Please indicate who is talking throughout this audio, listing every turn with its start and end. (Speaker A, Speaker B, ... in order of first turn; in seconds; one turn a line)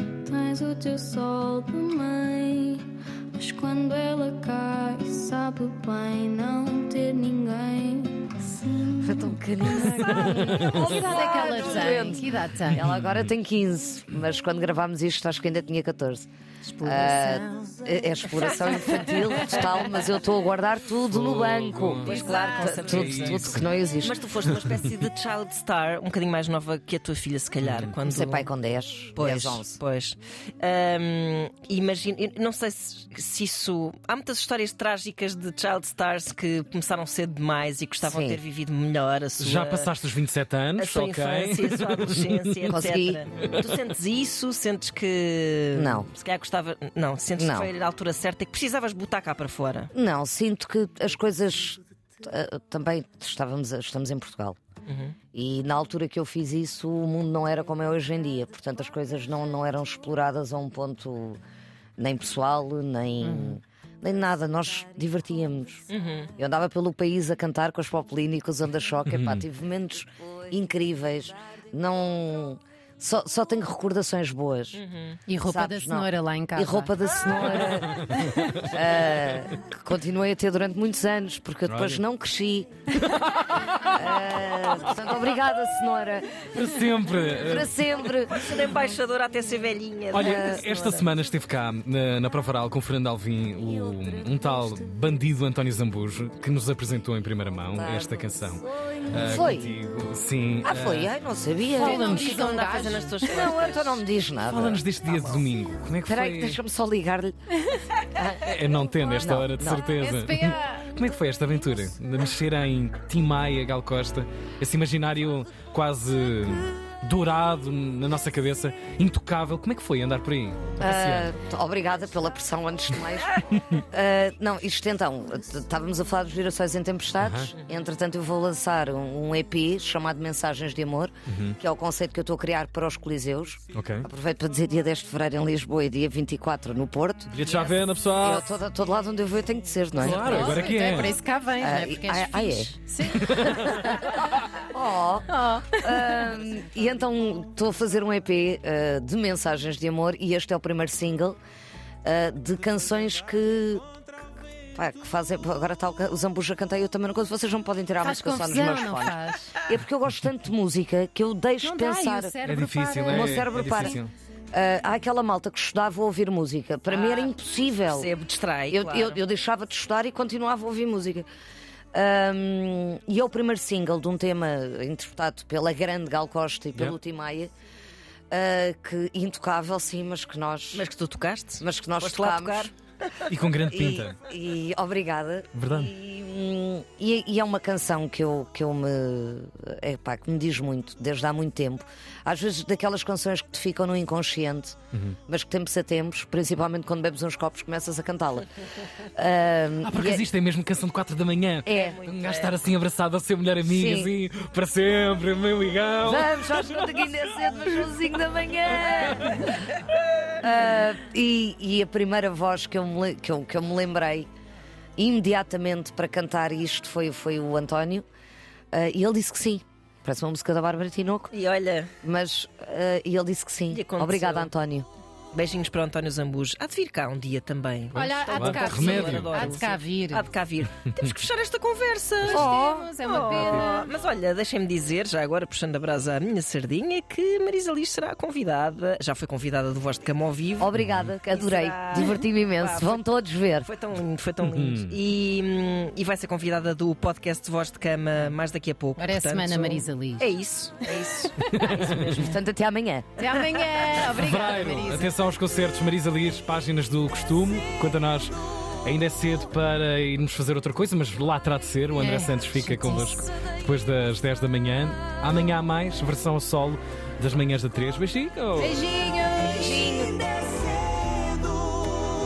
Speaker A: 0.2-9.3
Speaker B: 9.0-16.3
Speaker C: 9.9-11.1
Speaker D: 10.0-12.8
Speaker C: 12.8-13.1
Speaker D: 16.6-18.0
Speaker B: 16.8-24.2
Speaker E: 18.5-19.9
Speaker D: 18.9-19.3
Speaker C: 21.1-22.3
Speaker E: 22.0-28.5
Speaker D: 22.1-22.9
Speaker C: 22.9-23.7
Speaker B: 28.1-29.8
Speaker E: 29.1-39.9
Speaker B: 38.0-38.4
Speaker C: 39.4-42.6
Speaker E: 40.8-49.9
Speaker B: 42.7-43.2
Speaker B: 45.8-46.1
Speaker B: 47.4-47.7
Speaker B: 49.9-54.6
Speaker E: 54.9-55.2
Speaker B: 55.3-61.4
Speaker B: 62.0-65.9
Speaker D: 63.2-63.6
Speaker E: 65.9-66.3
Speaker B: 66.4-74.8
Speaker C: 69.1-69.4
Speaker E: 74.7-75.2
Speaker D: 75.3-76.9
Speaker B: 75.4-78.0
Speaker C: 78.0-78.5
Speaker D: 78.2-78.5
Speaker B: 78.6-82.9
Speaker C: 81.7-82.0
Speaker C: 83.0-84.6
Speaker B: 83.9-86.5
Speaker C: 86.5-87.8
Speaker B: 87.5-88.5
Speaker E: 88.3-91.0
Speaker C: 90.1-101.1
Speaker B: 90.2-90.8
Speaker B: 97.7-99.8
Speaker B: 100.6-102.4
Speaker E: 101.8-104.0
Speaker D: 101.8-103.2
Speaker B: 103.2-104.8
Speaker C: 104.5-106.6
Speaker E: 105.0-105.4
Speaker B: 106.0-107.3
Speaker B: 108.1-108.5
Speaker C: 108.4-121.3
Speaker B: 109.1-109.8
Speaker D: 109.8-111.1
Speaker B: 120.8-137.6
Speaker C: 127.2-127.5
Speaker C: 131.3-131.6
Speaker C: 133.7-134.1
Speaker C: 137.3-138.5
Speaker B: 138.2-140.6
Speaker C: 140.0-141.2
Speaker D: 140.1-144.2
Speaker B: 141.6-142.9
Speaker C: 143.2-143.9
Speaker B: 144.5-151.4
Speaker D: 145.3-146.2
Speaker B: 152.0-153.8
Speaker B: 154.8-162.4
Speaker D: 158.0-159.5
Speaker D: 161.6-163.9
Speaker C: 162.4-164.1
Speaker B: 163.1-164.0
Speaker B: 164.5-168.1
Speaker E: 166.9-167.3
Speaker E: 167.9-169.2
Speaker B: 168.7-171.3
Speaker B: 171.9-177.5
Speaker B: 178.3-180.9
Speaker E: 180.7-183.2
Speaker B: 181.6-182.7
Speaker C: 183.3-184.2
Speaker B: 183.7-198.5
Speaker C: 185.6-185.9
Speaker B: 199.2-200.3
Speaker C: 199.8-206.7
Speaker B: 201.7-202.0
Speaker E: 201.7-202.7
Speaker B: 203.7-204.1
Speaker B: 206.0-209.7
Speaker B: 210.4-214.3
Speaker B: 215.0-218.1
Speaker B: 218.7-221.3
Speaker E: 221.3-221.9
Speaker B: 222.0-224.9
Speaker E: 223.7-224.5
Speaker E: 225.3-240.7
Speaker D: 227.9-230.3
Speaker C: 227.9-229.4
Speaker D: 232.2-233.9
Speaker B: 232.3-232.9
Speaker B: 240.6-243.7
Speaker E: 241.3-252.4
Speaker C: 244.5-245.0
Speaker D: 249.0-250.3
Speaker D: 251.4-252.0
Speaker C: 251.5-252.2
Speaker B: 252.1-253.4
Speaker D: 253.2-255.1
Speaker C: 254.1-268.8
Speaker D: 262.0-263.2
Speaker D: 268.6-270.0
Speaker B: 269.5-270.3